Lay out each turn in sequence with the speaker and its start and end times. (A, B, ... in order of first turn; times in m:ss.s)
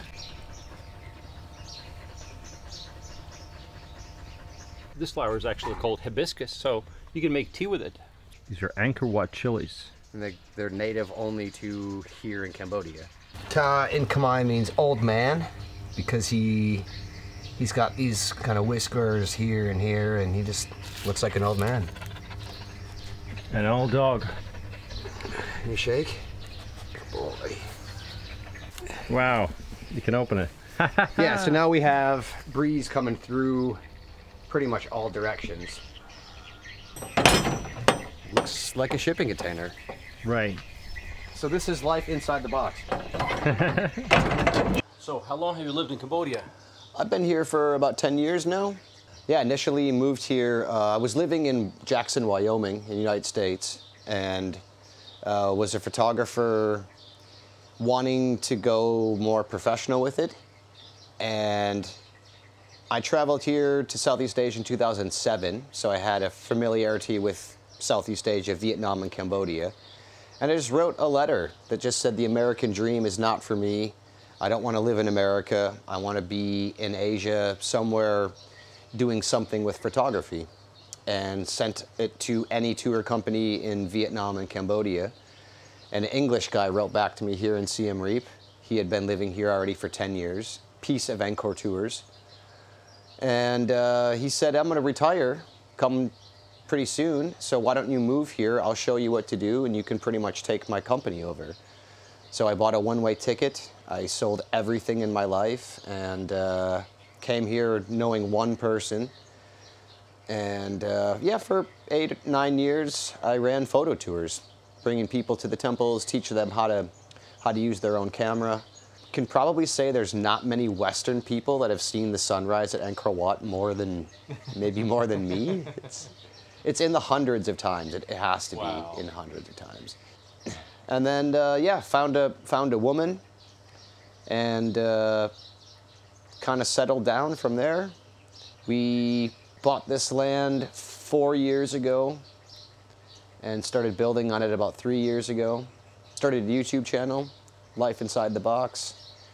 0:05.0-0:09.9 A
0:10.1-0:16.9 B
0:17.6-0:21.9 B
0:23.5-0:24.3 A
0:25.3-0:26.2 B
0:26.9-0:27.6 B
0:29.1-0:31.6 A
0:31.2-0:33.8 B
0:34.5-0:35.8 B
0:38.3-0:39.8 B
0:40.2-0:40.6 A
0:41.3-0:42.9 B
0:43.5-0:44.1 A
0:45.0-0:46.4 A
0:47.0-0:54.6 B
0:55.2-0:56.9 B
0:57.8-1:00.4 B
1:01.2-1:02.0 B
1:02.9-1:09.8 B
1:10.4-1:18.4 B
1:18.9-1:20.5 B
1:21.1-1:25.1 B
1:25.9-1:32.1 B
1:33.2-1:36.1 B
1:36.7-1:41.6 B
1:42.3-1:49.1 B
1:50.3-2:06.1 B
2:06.6-2:13.2 B
2:08.5-2:09.0 A
2:14.3-2:15.3 B
2:16.4-2:17.9 B
2:18.7-2:22.2 B
2:23.4-2:29.0 B